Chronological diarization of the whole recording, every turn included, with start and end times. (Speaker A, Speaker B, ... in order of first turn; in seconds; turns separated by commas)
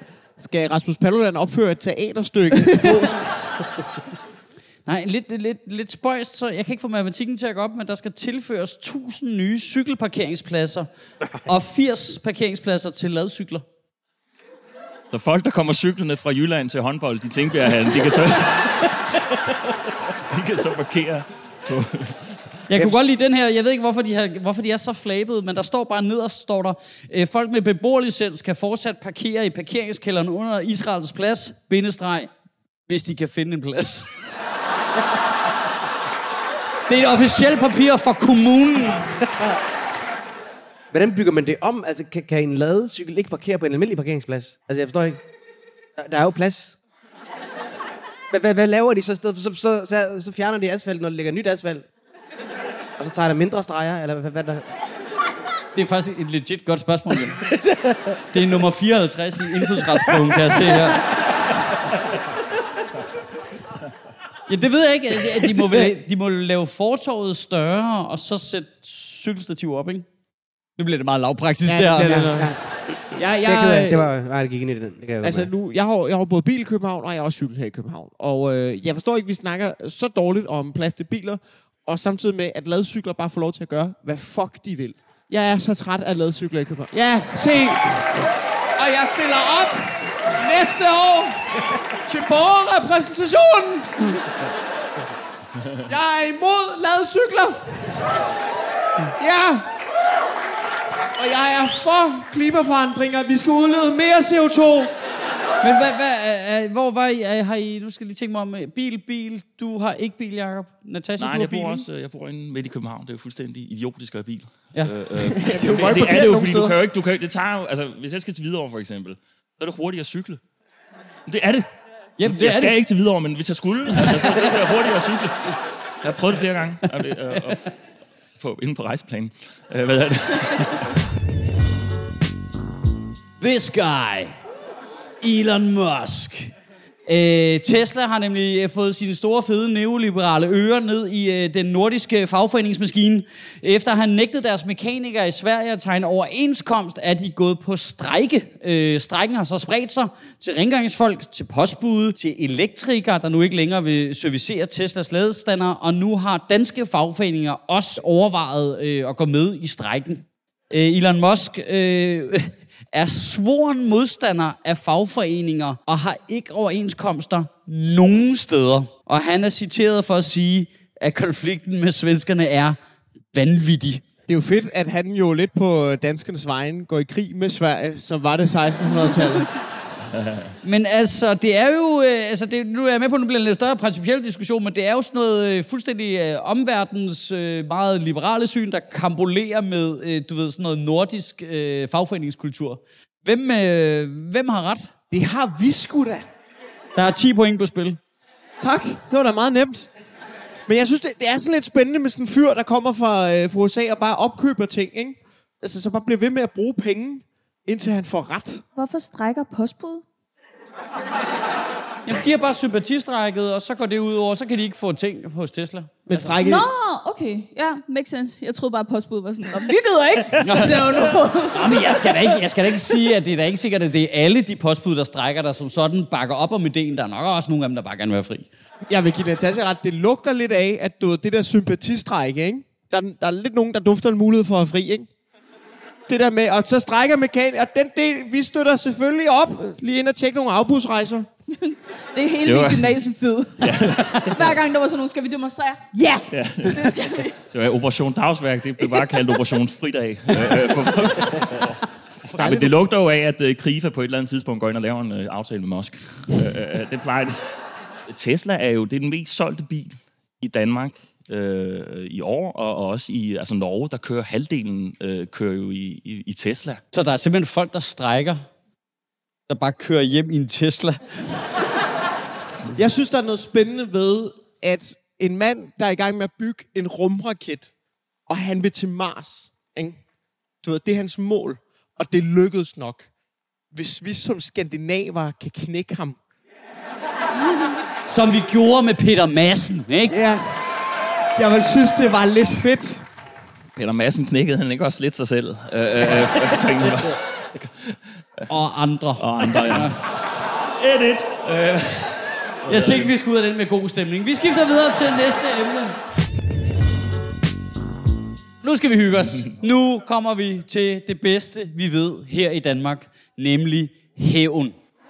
Speaker A: 0.4-3.3, Speaker B: 4.9-10.9, Speaker B: 11.4-13.7, Speaker C: 15.1-19.4, Speaker C: 20.1-22.9, Speaker B: 22.7-32.3, Speaker B: 32.9-34.1, Speaker B: 36.9-39.1, Speaker D: 40.9-45.2, Speaker D: 46.0-46.8, Speaker D: 48.3-51.9, Speaker D: 53.0-54.7, Speaker B: 55.8-57.5, Speaker B: 58.3-61.0, Speaker B: 64.5-70.1, Speaker B: 70.8-72.4, Speaker A: 71.7-74.1, Speaker D: 72.1-72.6, Speaker D: 73.4-75.5, Speaker A: 75.2-88.0, Speaker A: 88.8-91.4, Speaker A: 92.0-94.2, Speaker A: 95.9-97.9, Speaker A: 99.2-99.7, Speaker A: 101.2-104.9, Speaker B: 105.6-111.8, Speaker C: 111.2-120.4, Speaker A: 115.4-116.7, Speaker B: 116.0-116.3, Speaker C: 121.3-121.7, Speaker B: 122.2-122.7, Speaker C: 122.2-127.7, Speaker B: 124.0-124.5, Speaker B: 126.9-127.4, Speaker C: 128.4-130.9, Speaker B: 133.4-134.4, Speaker B: 135.2-136.5, Speaker B: 137.1-172.8, Speaker B: 173.3-174.0, Speaker A: 174.3-179.5, Speaker B: 180.6-194.9, Speaker A: 195.1-196.3, Speaker B: 196.9-198.0, Speaker A: 198.6-199.9, Speaker A: 200.7-208.6, Speaker E: 208.8-210.0, Speaker B: 212.1-216.2, Speaker D: 216.1-216.6, Speaker A: 216.1-216.6, Speaker E: 216.4-221.8, Speaker B: 220.4-228.5, Speaker A: 228.9-235.1, Speaker A: 236.1-241.3, Speaker E: 241.5-247.4, Speaker C: 242.4-242.9, Speaker C: 243.6-244.6, Speaker C: 246.3-246.9, Speaker C: 247.5-257.4, Speaker A: 252.4-252.7, Speaker C: 258.1-266.8, Speaker B: 266.9-268.5, Speaker B: 269.5-271.3, Speaker A: 272.7-277.7, Speaker A: 278.3-280.0, Speaker A: 280.6-283.1, Speaker A: 283.7-286.2, Speaker B: 288.1-290.2, Speaker A: 290.1-290.6, Speaker A: 291.4-293.1, Speaker C: 293.8-298.4, Speaker B: 298.5-300.0, Speaker C: 299.2-300.1, Speaker C: 300.8-303.1, Speaker B: 302.7-306.0, Speaker B: 308.6-314.8